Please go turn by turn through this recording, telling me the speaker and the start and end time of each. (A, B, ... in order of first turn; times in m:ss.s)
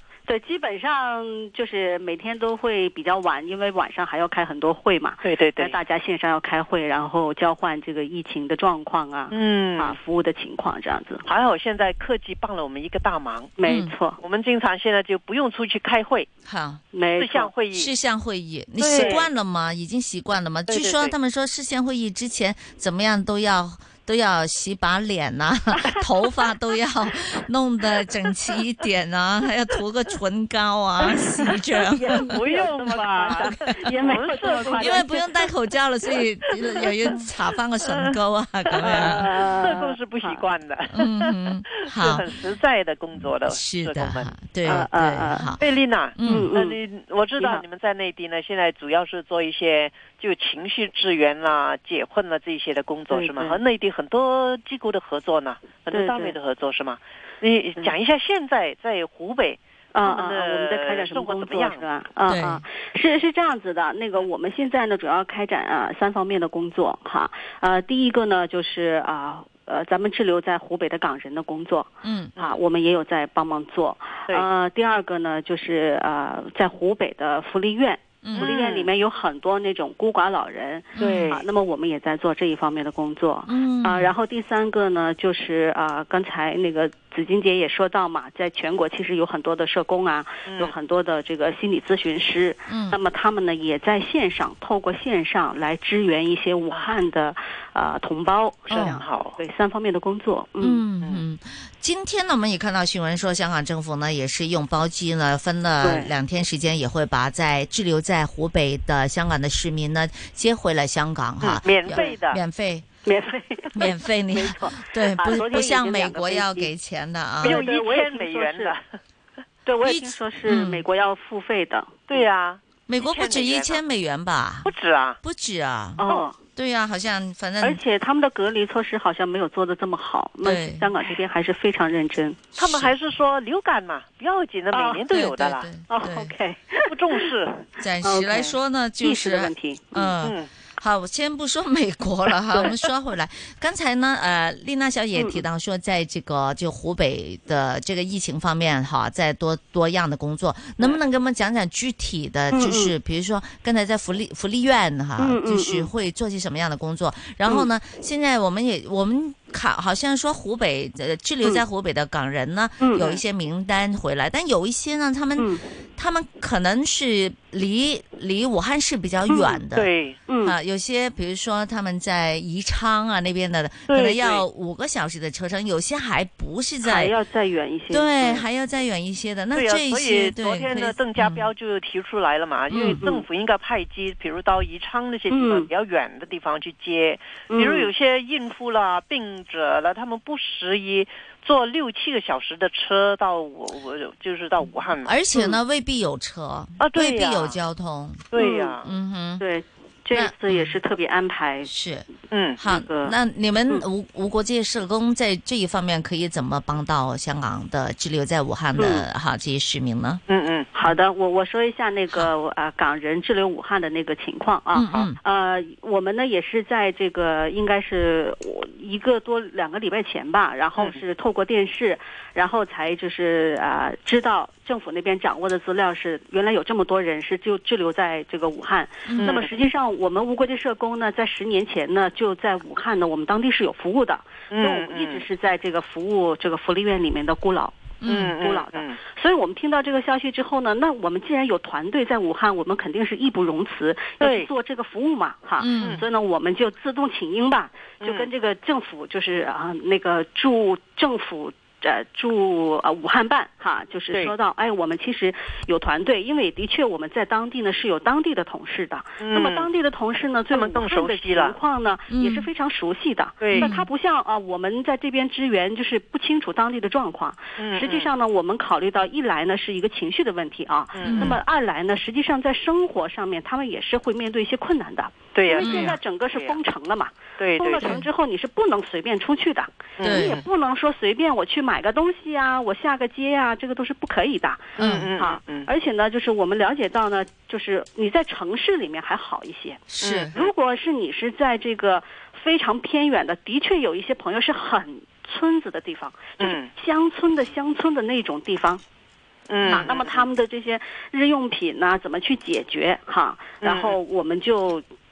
0:00.3-0:11.2 A
0:05.2-0:05.8 B
0:09.3-0:10.0 B
0:11.2-0:13.6 B
0:13.6-0:14.2 A
0:13.6-0:13.9 C
0:14.2-0:16.3 B
0:16.4-0:16.8 C
0:16.9-0:17.5 A
0:17.1-0:17.9 B
0:17.7-0:32.4 C
0:18.8-0:19.3 B
0:18.9-0:19.3 A
0:20.7-0:21.1 B
0:31.9-0:35.3 A
0:32.2-0:35.1 B
0:33.4-0:33.7 C
0:34.6-0:39.3 C
0:38.8-0:40.5 A
0:38.8-0:44.3 B
0:40.9-0:42.3 C
0:43.5-0:45.6 C
0:44.6-0:45.6 A
0:45.6-1:01.8 B
0:46.2-0:46.5 C
0:46.2-0:46.8 A
0:47.4-0:47.6 A
0:53.1-0:53.6 A
0:55.9-0:56.4 A
0:59.9-1:40.8 A
1:02.3-1:02.6 C
1:12.0-1:12.4 C
1:18.2-1:18.5 C
1:18.4-1:18.9 B
1:21.0-1:21.3 C
1:21.0-1:21.4 B
1:23.5-1:24.1 C
1:30.4-1:30.7 B
1:32.7-1:33.0 C
1:38.7-1:39.4 B
1:38.7-1:39.0 C
1:40.6-1:52.9 C
1:45.8-1:46.1 A
1:51.4-1:52.4 B
1:51.9-1:52.2 A
1:53.0-1:56.7 A
1:53.7-1:57.6 C
1:57.4-1:58.7 A
1:57.4-1:58.8 B
1:59.6-2:02.3 A
1:59.8-2:00.8 C
2:02.1-2:03.8 B
2:02.9-2:07.8 C
2:04.6-2:05.2 B
2:06.0-2:06.4 A
2:07.6-2:12.5 A
2:10.4-2:10.9 C
2:12.6-2:15.7 B
2:14.7-2:15.1 A
2:15.1-2:16.3 C
2:15.9-2:17.3 A
2:16.9-2:17.7 B
2:17.8-2:49.9 C
2:18.0-2:20.1 A
2:20.2-2:20.5 B
2:25.2-2:25.4 A
2:32.5-2:32.9 A
2:35.2-2:35.9 A
2:43.0-2:43.2 B
2:45.4-2:45.6 A
2:49.3-2:49.6 A
2:49.7-2:50.2 B
2:50.3-2:50.6 A
2:50.4-2:57.1 C
2:53.9-2:54.4 B
2:56.8-2:58.4 A
2:57.9-3:01.5 C
2:59.5-3:15.2 B
3:02.7-3:03.2 A
3:02.7-3:03.0 C
3:05.3-3:05.7 A
3:07.5-3:07.9 A
3:15.0-3:19.4 C
3:16.8-3:17.6 B
3:18.3-3:18.9 B
3:18.4-3:18.8 A
3:19.4-3:21.7 A
3:20.1-3:20.8 C
3:21.7-3:30.2 C
3:22.3-3:22.6 B
3:22.6-3:23.2 A
3:28.8-3:29.1 A
3:30.3-3:30.7 B
3:30.7-4:49.8 A
3:34.7-3:35.2 C
3:49.1-3:49.4 C
3:49.2-3:49.5 B
3:54.5-3:55.2 B
3:58.0-3:58.4 C
3:58.0-3:59.0 B
4:04.2-4:04.5 B
4:05.6-4:06.0 C
4:05.8-4:06.0 B
4:08.0-4:08.3 B
4:19.2-4:19.7 B
4:20.5-4:21.6 B
4:22.1-4:22.5 C
4:23.4-4:23.7 B
4:23.5-4:23.9 C
4:27.6-4:28.1 B
4:30.9-4:31.4 B
4:31.1-4:31.4 C
4:35.4-4:36.6 B
4:35.6-4:36.0 C
4:37.4-4:38.0 B
4:40.0-4:40.4 B
4:40.0-4:40.4 C
4:44.8-4:45.7 B
4:44.8-4:45.1 C
4:49.9-4:50.3 C
4:50.0-4:50.5 B
4:50.3-4:58.8 A
4:56.4-4:56.7 B
4:59.5-5:00.2 B
4:59.6-5:04.8 A
5:03.6-5:04.0 B